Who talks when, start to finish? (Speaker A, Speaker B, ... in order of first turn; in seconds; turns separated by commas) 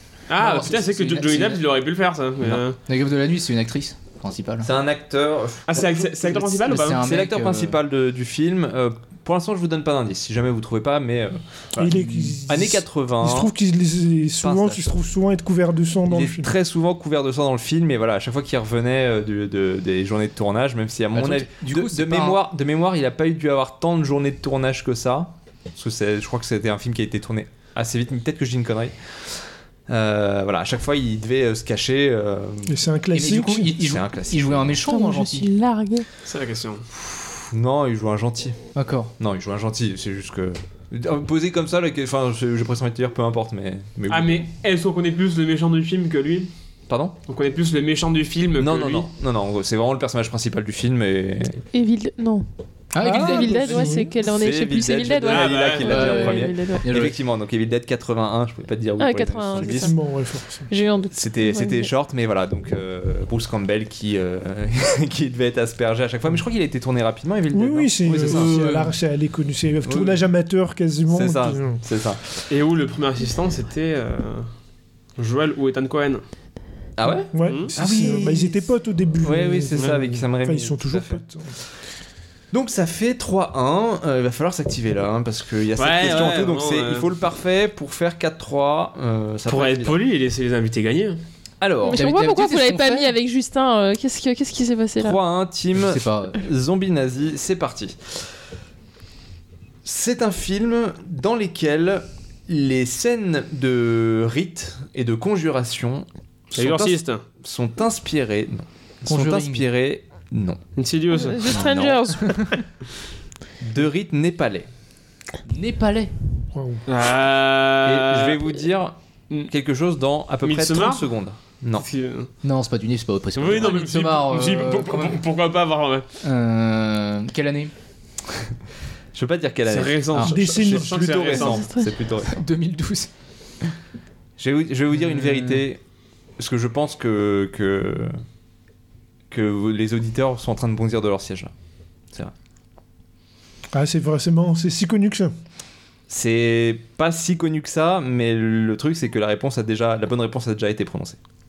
Speaker A: 0.3-2.8, Speaker B: 0.4-1.6, Speaker B: 2.9-4.7, Speaker C: 4.6-11.9, Speaker A: 5.7-7.0, Speaker B: 6.5-7.8, Speaker D: 11.8-16.5, Speaker B: 11.8-12.4, Speaker C: 12.4-13.5, Speaker C: 14.4-15.0, Speaker C: 16.1-32.8, Speaker B: 21.1-22.4, Speaker D: 32.6-33.7, Speaker B: 33.1-35.5, Speaker C: 33.8-34.8, Speaker E: 34.9-36.1, Speaker A: 36.2-36.8, Speaker C: 36.9-38.6, Speaker B: 38.8-39.1, Speaker C: 39.2-44.5, Speaker A: 44.1-46.5, Speaker C: 46.9-47.1, Speaker A: 47.2-49.1, Speaker C: 48.6-51.6, Speaker E: 51.7-52.5, Speaker B: 52.9-54.0, Speaker D: 53.0-54.2, Speaker E: 53.1-56.9, Speaker C: 54.2-59.9, Speaker A: 55.2-55.9, Speaker B: 55.9-57.1, Speaker E: 59.0-60.0, Speaker D: 59.5-60.7, Speaker E: 60.7-61.9, Speaker C: 61.1-68.5, Speaker D: 67.5-71.8, Speaker B: 68.2-69.0, Speaker C: 69.8-70.2, Speaker C: 71.1-72.5, Speaker A: 72.5-74.5, Speaker A: 75.2-76.2, Speaker C: 77.0-78.7, Speaker D: 77.3-81.6, Speaker A: 77.4-77.7, Speaker C: 79.2-81.2, Speaker A: 79.7-80.0, Speaker C: 82.5-90.0, Speaker A: 85.8-87.1, Speaker A: 89.5-91.2, Speaker C: 91.6-92.0, Speaker E: 91.8-95.2, Speaker B: 91.9-93.1, Speaker C: 95.0-98.0, Speaker B: 95.7-96.4, Speaker C: 99.8-110.6, Speaker A: 106.5-107.2, Speaker B: 109.0-109.7, Speaker A: 110.8-111.5, Speaker E: 111.1-112.6, Speaker C: 111.5-112.0, Speaker C: 113.6-114.7, Speaker B: 115.5-116.1, Speaker D: 116.5-116.8, Speaker A: 116.9-118.6, Speaker C: 117.8-119.0, Speaker C: 119.5-121.8, Speaker A: 120.4-121.1, Speaker A: 121.8-122.3, Speaker B: 122.4-125.2, Speaker A: 123.3-126.0, Speaker B: 126.2-127.7, Speaker C: 129.1-132.3, Speaker A: 129.7-131.6, Speaker D: 130.2-131.5, Speaker E: 131.2-131.9, Speaker B: 132.2-133.1, Speaker C: 134.4-135.8, Speaker B: 135.1-135.6, Speaker C: 136.4-138.1, Speaker C: 139.3-141.5, Speaker D: 143.7-145.3, Speaker C: 146.1-151.2